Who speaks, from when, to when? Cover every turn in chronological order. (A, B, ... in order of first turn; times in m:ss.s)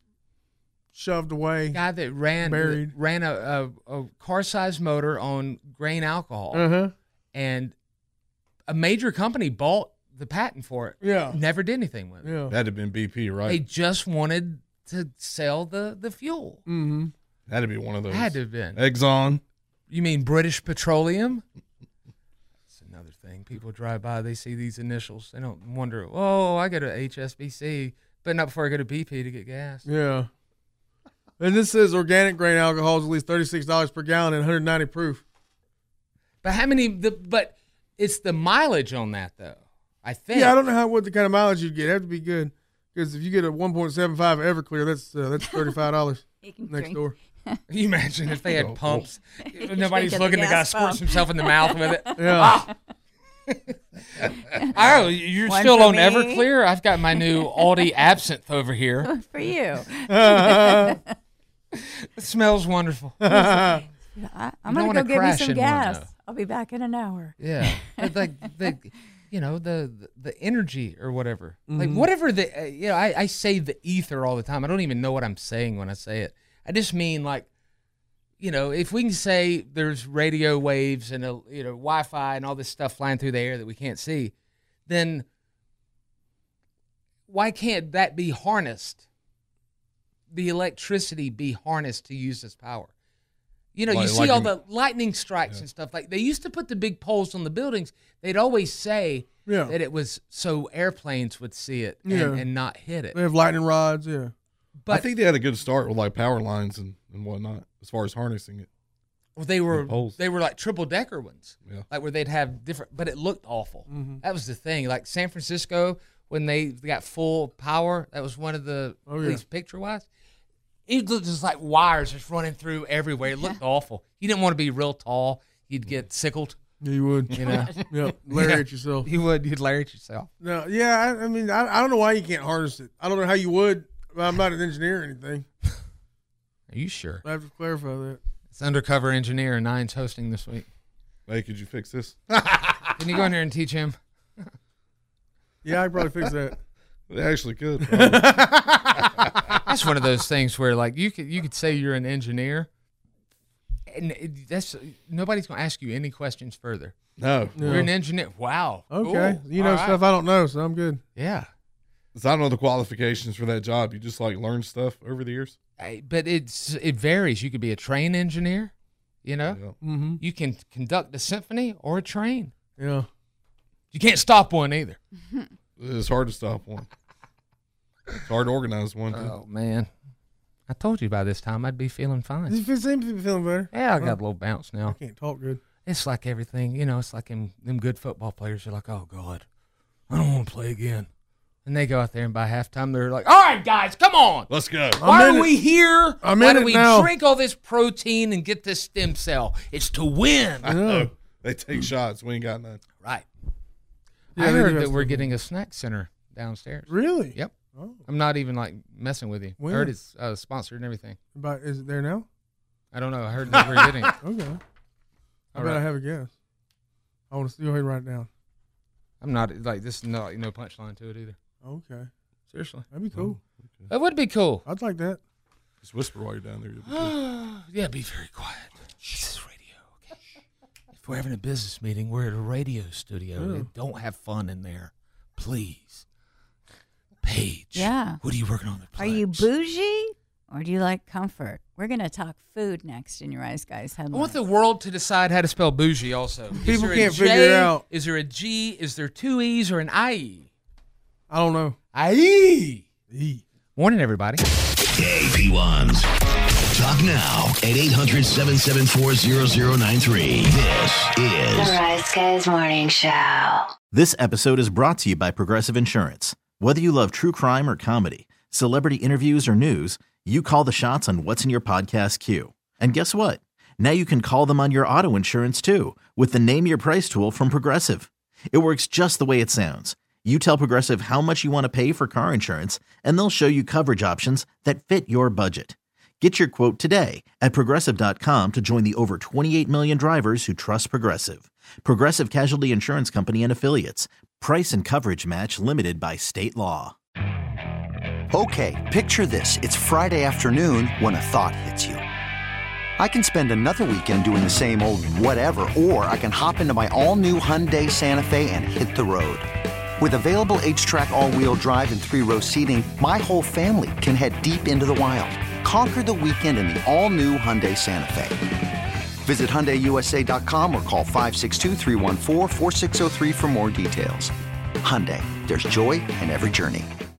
0:00.9-0:01.8 A
0:01.7-0:06.7 B
0:02.4-0:02.9 A
0:06.5-0:06.9 A
0:07.3-0:07.8 B
0:08.7-0:12.3 B
0:11.0-0:11.4 A
0:12.2-0:12.6 A
0:12.5-0:13.6 C
0:13.5-0:16.6 B
0:16.7-0:17.1 A
0:17.5-0:19.4 C
0:18.1-0:18.8 B
0:19.9-0:21.4 B
0:22.7-0:29.8 B
0:29.8-0:30.3 A
0:31.4-0:35.2 A
0:36.4-0:40.6 B
0:40.3-0:47.2 A
0:45.4-0:45.8 D
0:46.4-0:47.6 D
0:47.7-0:52.7 B
0:48.6-0:49.0 C
0:49.4-0:52.7 D
0:52.2-0:52.6 A
0:54.6-0:56.5 D
0:54.7-0:59.1 B
0:57.1-0:57.9 D
0:59.0-1:01.0 D
1:00.1-1:01.0 A
1:01.8-1:03.2 B
1:03.2-1:03.8 A
1:03.3-1:08.5 D
1:04.6-1:06.1 B
1:07.4-1:17.5 B
1:11.7-1:12.1 A
1:18.4-1:24.3 B
1:24.9-1:25.2 B
1:27.3-1:29.0 B
1:30.3-1:32.9 B
1:33.8-1:43.2 B
1:33.9-1:34.5 C
1:39.5-1:39.8 A
1:42.0-1:42.5 A
1:43.1-1:44.3 A
1:44.8-1:45.1 B
1:44.9-1:48.7 C
1:49.4-2:00.1 B
1:49.7-1:50.2 C
1:53.9-1:54.2 A
1:59.1-1:59.4 A
2:00.9-2:06.6 B
2:06.8-2:09.1 A
2:07.3-2:10.3 B
2:07.4-2:07.9 D
2:10.4-2:15.5 A
2:16.7-2:17.2 B
2:17.2-2:18.2 A
2:18.5-2:20.7 B
2:21.3-2:22.9 C
2:23.0-2:24.0 B
2:25.6-2:26.6 A
2:27.1-2:28.5 C
2:27.8-2:28.5 A
2:29.0-2:29.6 C
2:29.6-2:32.7 B
2:33.9-2:37.0 B
2:37.2-2:37.8 C
2:37.6-2:37.9 A
2:37.6-2:40.0 B
2:38.9-2:41.0 A
2:41.2-2:41.5 B
2:42.2-2:45.6 C
2:45.8-2:48.7 B
2:49.2-2:49.6 B
2:49.5-2:49.8 C
2:49.8-2:50.2 A
2:50.2-2:52.5 B
2:52.8-2:53.1 A
2:53.9-2:55.0 B
2:55.8-2:56.9 C
2:58.2-2:59.3 C
2:59.1-2:59.9 B
3:00.7-3:02.6 B
3:02.5-3:04.2 A
3:03.7-3:05.0 B
3:04.9-3:05.6 A
3:05.8-3:09.4 B
3:10.1-3:11.1 B
3:11.6-3:20.7 B
3:14.5-3:15.0 C
3:15.0-3:15.5 A
3:16.2-3:17.1 A
3:20.6-3:22.8 C
3:20.7-3:21.1 A
3:24.4-3:25.3 A
3:24.4-3:27.5 B
3:26.9-3:28.0 A
3:28.1-3:31.2 B
3:29.6-3:29.9 A
3:31.4-3:32.3 A
3:32.9-3:34.2 B
3:34.2-3:34.6 A
3:35.5-3:35.8 B
3:35.5-3:36.3 A
3:37.3-3:38.3 A
3:39.2-3:41.4 B
3:41.6-3:42.1 A
3:42.5-3:42.9 B
3:42.9-3:43.4 A
3:43.2-3:43.9 C
3:43.9-3:44.6 B
3:44.6-3:45.2 A
3:45.8-3:47.2 C
3:46.9-3:50.1 B
3:51.0-3:56.0 B
3:53.4-3:53.7 A
3:57.2-3:59.5 B
3:57.8-3:58.2 D
3:59.0-4:04.4 D
4:04.1-4:10.5 B
4:06.6-4:07.8 A
4:11.3-4:11.8 A
4:11.9-4:12.9 B
4:13.1-4:13.4 A
4:13.8-4:14.4 B
4:14.9-4:16.1 E
4:16.7-4:21.8 E
4:21.5-4:23.7 F
4:23.9-4:57.0 G
4:58.3-5:02.0 H
5:03.0-5:18.4 H
5:19.2-5:26.9 H